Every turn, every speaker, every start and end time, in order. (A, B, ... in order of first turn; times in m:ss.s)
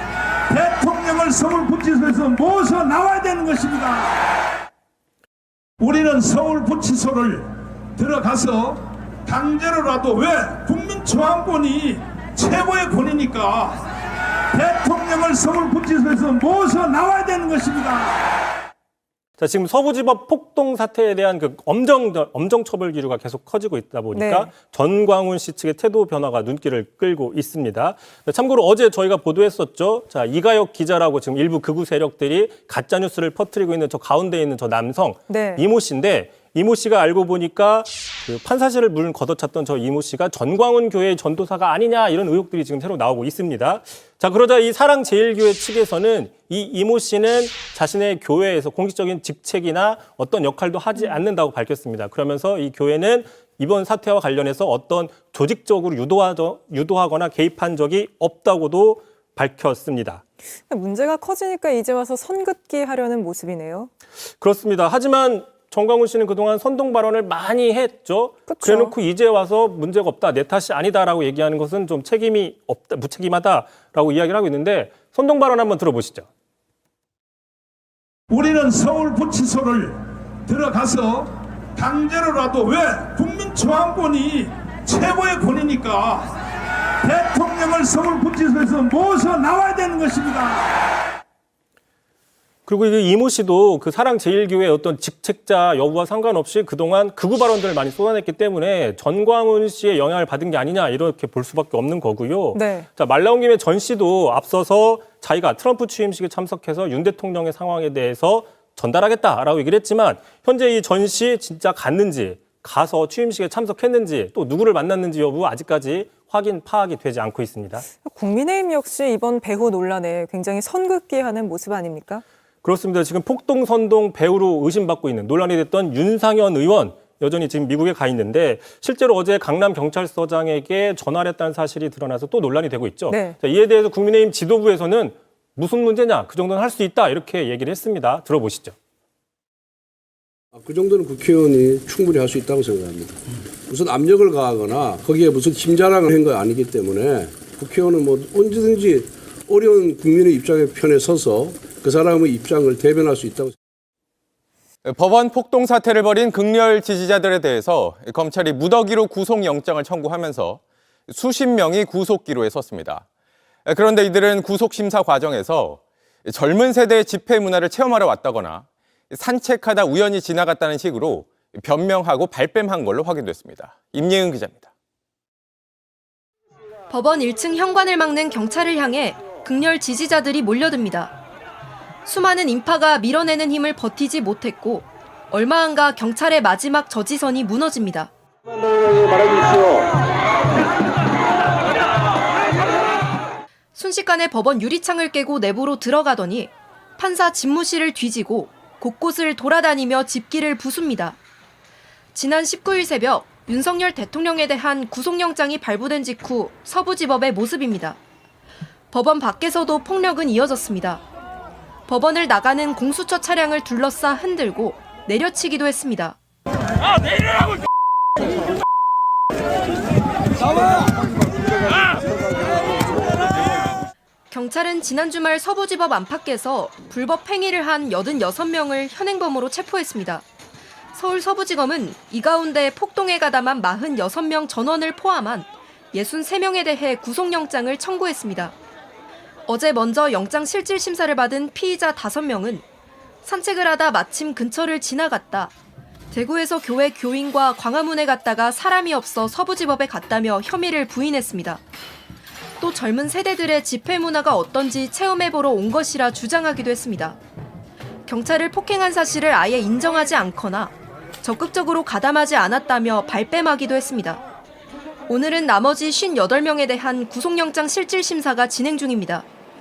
0:00.5-0:04.2 A
0:05.8-0:13.8 A
0:14.5-0:18.2 A
0:19.4-1:00.2 B
0:24.1-0:24.5 C
0:35.3-0:35.6 C
1:00.7-1:03.9 C
1:04.4-1:16.3 B
1:08.5-1:08.9 C
1:18.3-1:26.3 A
1:27.0-1:30.8 A
1:32.7-1:57.9 B
1:42.5-1:42.9 C
1:57.9-2:02.2 C
2:02.6-2:18.8 B
2:13.1-2:13.4 C
2:20.5-2:33.6 D
2:34.8-2:43.0 E
2:43.7-2:54.7 E
2:56.9-3:01.1 F
3:02.1-3:08.1 F
3:13.7-3:21.2 F
3:22.2-3:28.0 F
3:28.9-3:31.0 F
3:31.9-3:36.2 F
3:44.3-3:50.2 F
3:50.9-3:58.6 F
3:59.5-4:02.6 F
4:03.2-4:05.5 F
4:06.1-4:11.6 F
4:12.6-4:17.2 F
4:18.1-4:24.2 F
4:25.1-4:29.3 F